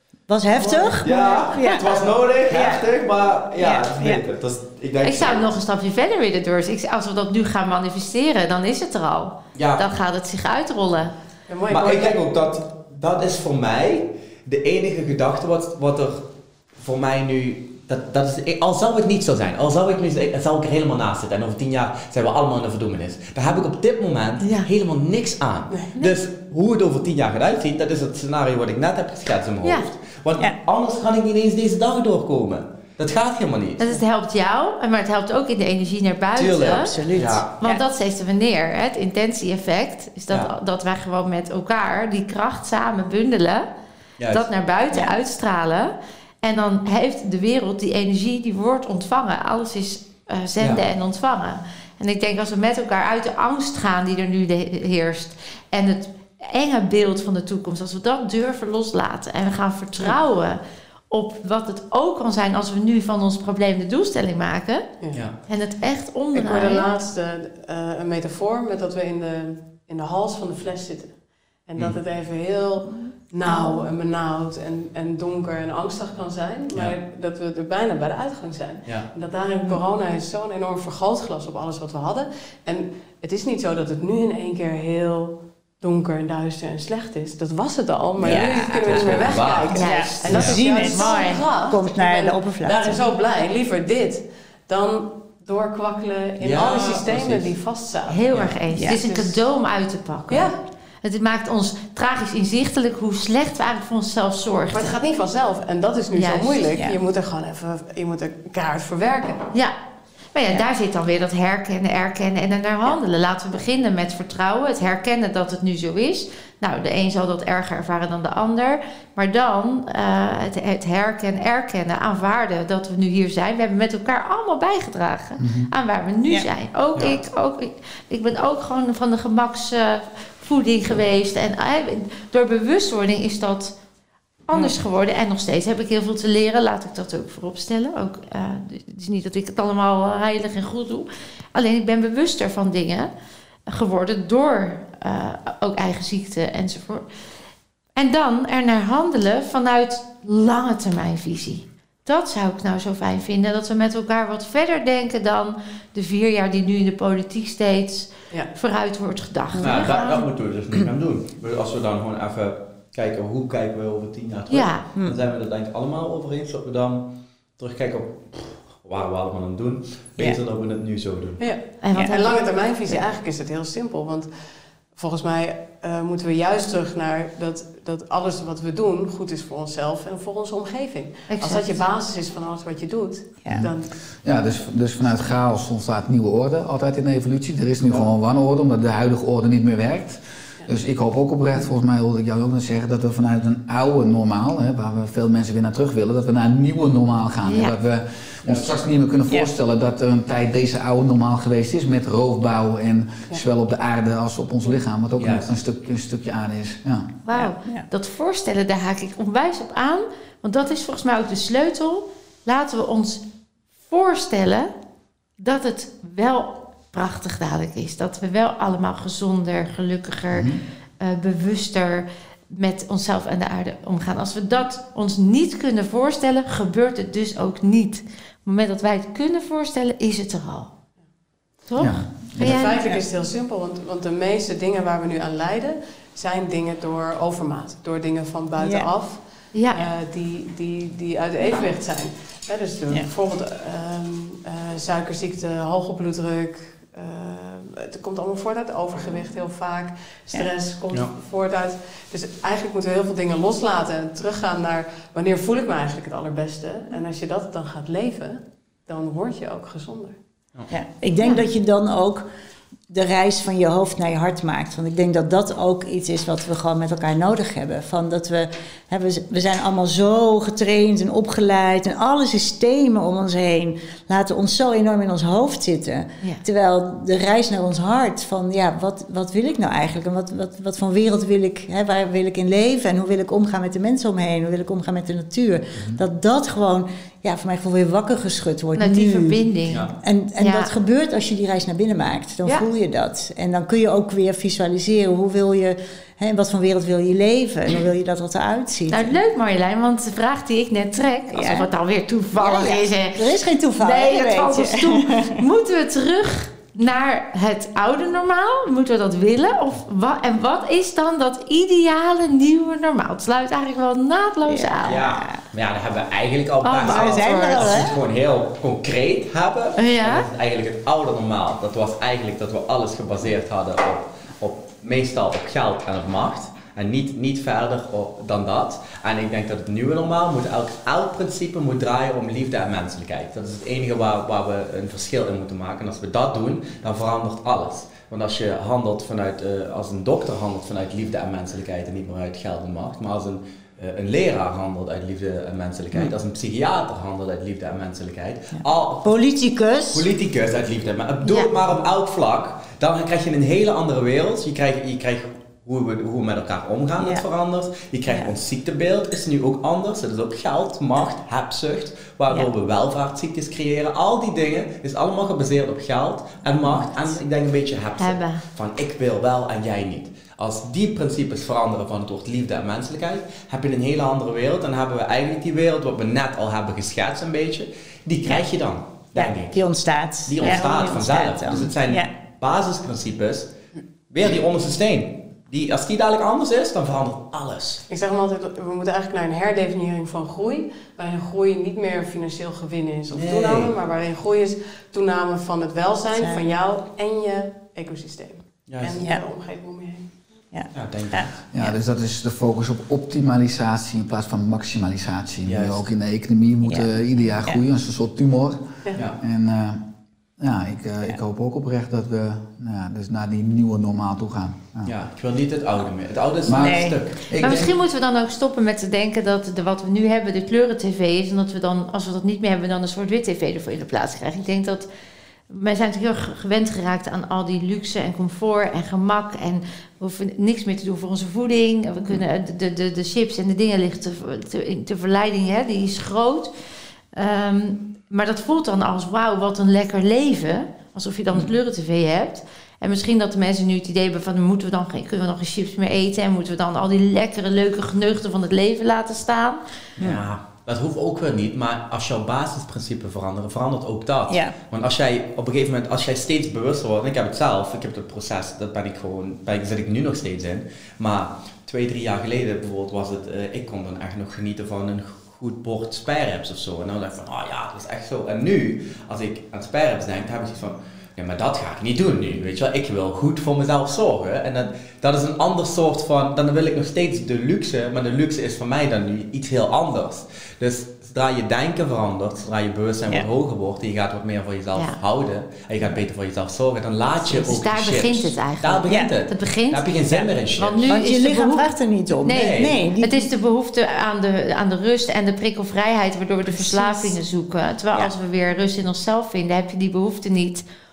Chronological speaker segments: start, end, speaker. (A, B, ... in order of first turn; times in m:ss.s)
0:00.3-0:02.9 A
0:00.6-0:01.4 B
0:01.0-0:05.5 C
0:04.0-0:04.2 A
0:05.0-0:11.1 D
0:09.6-0:09.8 C
0:11.5-0:12.2 B
0:11.7-0:16.3 C
0:16.8-0:34.0 C
0:24.4-0:24.7 D
0:33.8-0:36.9 D
0:36.4-0:37.5 C
0:36.7-0:37.8 A
0:37.6-0:43.6 D
0:44.2-0:44.5 C
0:44.3-1:00.6 D
1:01.1-1:06.9 D
1:06.3-1:39.4 B
1:13.5-1:13.8 D
1:18.8-1:19.1 C
1:28.2-1:30.6 C
1:28.2-1:33.0 A
1:29.7-1:31.4 D
1:36.4-1:37.5 C
1:38.1-1:45.0 D
1:38.7-1:39.0 A
1:40.3-1:40.6 B
1:44.7-1:49.5 B
1:46.1-1:46.6 D
1:46.7-1:47.0 A
1:50.3-2:13.8 D
2:05.4-2:05.7 E
2:14.5-2:23.1 D
2:23.7-2:27.1 D
2:28.0-2:40.2 D
2:39.6-2:39.9 A
2:39.6-2:51.5 C
2:44.5-2:44.9 D
2:51.4-2:54.3 B
2:51.8-2:52.4 D
2:51.9-2:52.2 A
2:54.9-3:03.9 B
3:01.3-3:01.8 D
3:04.2-3:27.1 E
3:17.5-3:17.7 D
3:18.4-3:18.8 C
3:25.2-3:25.5 C
3:27.3-3:33.2 D
3:27.3-3:27.9 A
3:33.9-3:34.7 D
3:35.4-3:50.7 D
3:40.3-3:40.6 E
3:51.6-3:52.8 D
3:51.8-3:52.9 E
3:52.4-4:20.2 B
3:58.6-3:58.9 A
3:59.5-3:59.8 D
4:20.7-4:22.2 A
4:22.9-4:49.4 A
4:48.8-4:49.9 D
4:50.0-4:59.2 A
4:50.4-4:50.7 D
4:58.9-5:03.3 D
5:01.3-5:01.7 A
5:02.4-5:05.4 A
5:03.8-5:15.0 D
5:14.5-5:15.4 A
5:14.8-5:49.1 C
5:16.6-5:17.8 D
5:16.8-5:18.0 A
5:19.8-5:20.3 D
5:48.6-5:50.0 A
5:49.9-6:19.6 C
5:51.2-5:51.5 D
5:57.0-5:57.2 A
6:06.6-6:07.2 A
6:08.0-6:08.4 D
6:19.2-6:22.1 A
6:20.2-6:23.5 C
6:24.1-6:27.8 C
6:27.9-6:40.2 B
6:33.1-6:33.7 C
6:36.2-6:36.4 A
6:38.7-6:39.0 C
6:40.5-6:41.7 A
6:40.7-6:41.3 C
6:41.5-6:49.8 E
6:45.4-6:45.9 C
6:50.4-6:54.9 E
6:54.8-6:57.2 C
6:56.5-6:57.7 E
6:56.5-6:57.0 A
6:57.4-7:04.9 D
7:05.5-7:16.5 D
7:17.1-7:29.6 D
7:30.0-8:10.9 C
7:34.3-7:34.5 A
8:07.2-8:11.7 D
8:08.9-8:09.1 A
8:10.9-8:13.2 A
8:12.2-8:20.6 D
8:12.3-8:12.7 C
8:16.5-8:17.2 A